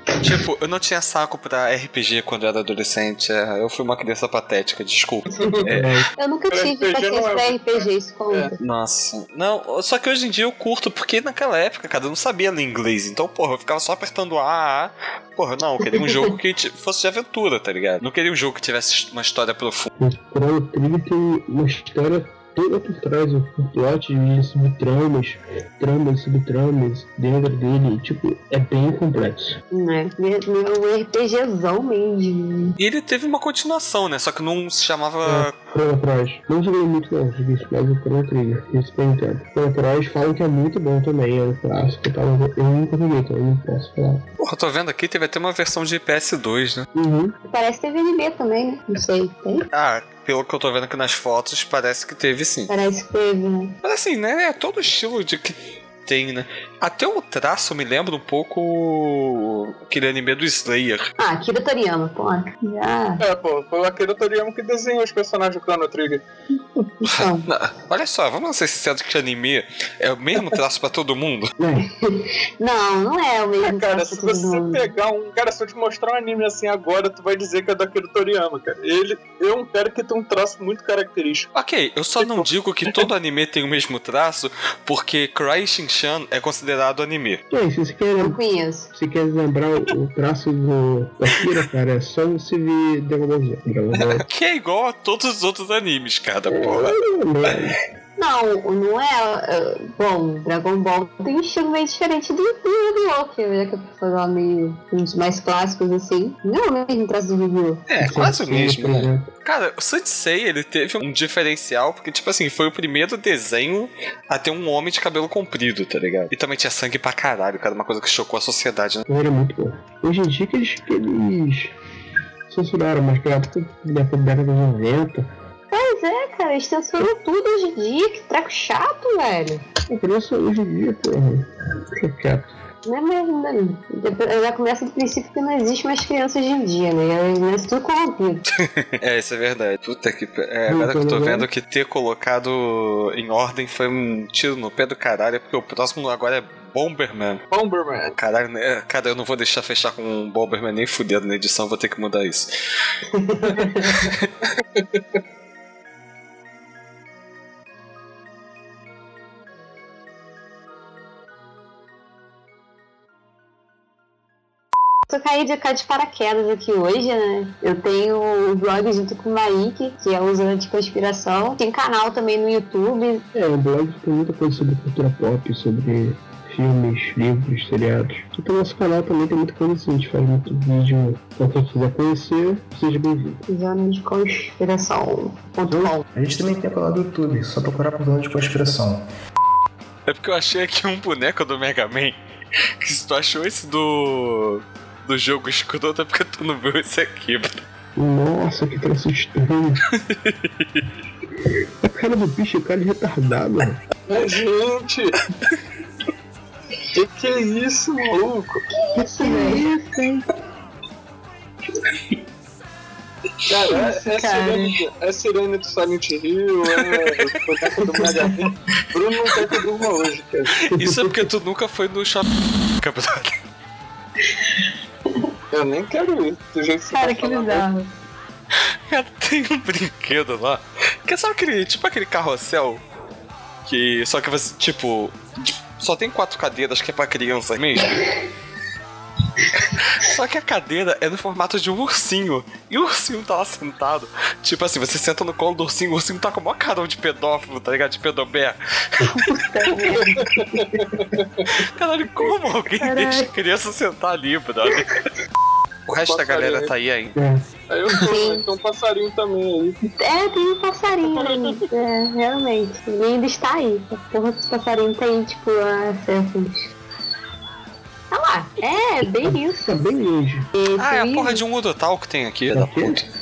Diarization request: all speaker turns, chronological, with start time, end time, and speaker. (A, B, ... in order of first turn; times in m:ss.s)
0:00.2-0:05.9 A
0:05.3-0:05.6 B
0:05.7-0:06.1 C
0:06.2-0:08.6 D
0:06.5-0:08.5 B
0:08.6-0:19.9 A
0:15.8-0:16.2 D
0:20.0-0:29.6 C
0:29.7-0:32.8 D
0:32.8-0:35.5 A
0:35.2-0:44.2 C
0:44.4-0:46.9 A
0:46.9-0:47.4 C
0:47.5-0:49.7 D
0:49.7-0:52.7 A
0:52.7-0:53.8 D
0:53.8-1:01.1 A
1:01.2-1:03.2 D
1:03.2-1:06.2 B
1:07.0-1:07.5 D
1:07.0-1:11.5 A
1:11.6-1:11.9 C
1:11.9-1:14.9 D
1:13.6-1:21.5 B
1:21.6-1:27.4 A
1:22.2-1:23.0 B
1:27.5-1:28.4 C
1:28.2-1:28.9 D
1:28.9-1:34.2 C
1:34.0-1:37.0 A
1:36.5-1:37.8 C
1:38.2-1:47.9 D
1:47.9-1:59.1 A
1:48.0-1:49.3 C
1:59.1-2:01.8 C
2:02.5-2:05.3 C
2:05.7-2:09.6 D
2:09.9-2:12.5 C
2:12.8-2:18.4 D
2:18.6-2:27.4 A
2:20.7-2:21.5 C
2:27.5-2:28.2 B
2:28.2-2:32.5 A
2:33.1-2:33.9 D
2:33.5-2:35.2 B
2:33.8-2:34.3 A
2:45.1-2:53.2 D
2:53.3-3:03.4 C
3:03.5-3:06.1 D
3:05.7-3:05.9 C
3:06.2-3:09.1 E
3:10.1-3:12.2 A
3:12.8-3:17.6 A
3:18.0-3:19.8 C
3:19.9-3:20.8 A
3:21.8-3:23.8 C
3:24.1-3:25.2 B
3:26.9-3:28.7 B
3:28.9-3:29.7 D
3:29.2-3:30.3 C
3:33.5-3:40.6 B
3:33.7-3:34.8 D
3:36.9-3:37.2 A
3:37.9-3:38.3 D
3:40.6-3:43.4 A
3:40.7-3:41.3 C
3:45.5-3:47.7 B
3:46.9-3:47.9 D
3:48.9-3:52.8 A
3:53.7-3:55.2 A
3:55.8-3:58.0 A
3:59.6-4:09.1 A
4:09.0-4:10.6 D
4:09.9-4:11.6 B
4:11.6-4:15.0 A
4:12.8-4:13.3 D
4:15.9-4:17.2 A
4:16.0-4:16.7 B
4:17.2-4:17.4 C
4:17.7-4:19.8 B
4:17.9-4:18.4 D
4:20.0-4:26.7 D
4:21.2-4:21.5 B
4:28.1-4:29.8 D
4:29.2-4:30.5 C
4:30.5-4:31.4 D
4:30.8-4:33.1 A
4:32.5-4:33.0 C